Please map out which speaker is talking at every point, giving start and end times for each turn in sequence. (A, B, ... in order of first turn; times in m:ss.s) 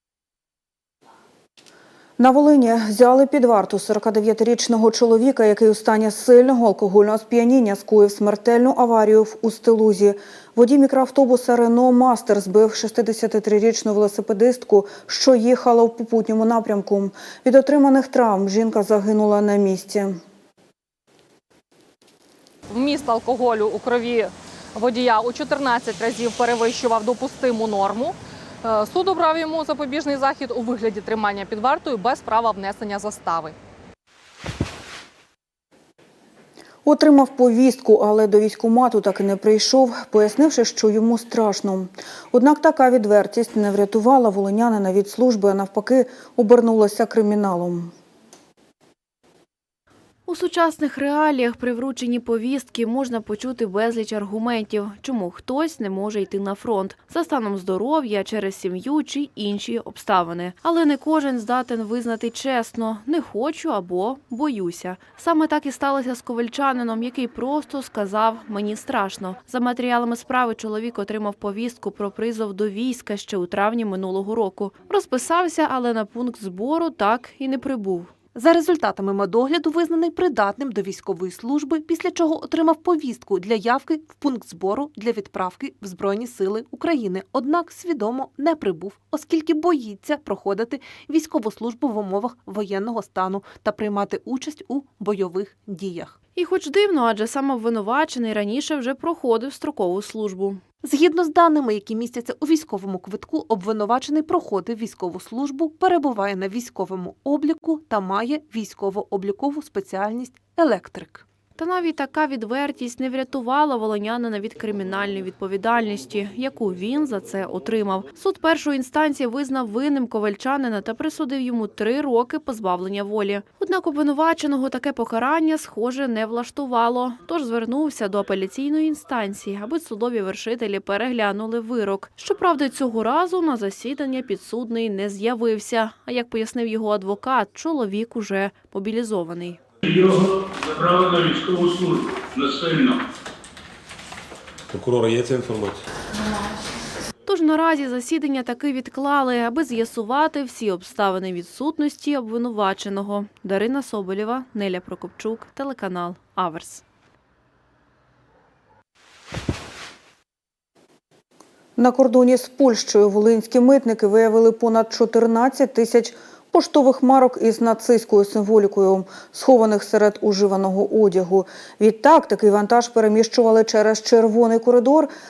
0:02.2-0:20.2 A
0:22.7-0:33.5 B
0:36.8-0:47.9 A
0:50.3-1:18.1 C
1:18.3-1:36.2 D
1:36.4-1:40.6 C
1:40.8-1:51.2 D
1:51.6-2:19.6 C
2:19.8-2:23.0 E
2:27.2-2:36.8 C
2:41.8-2:55.1 A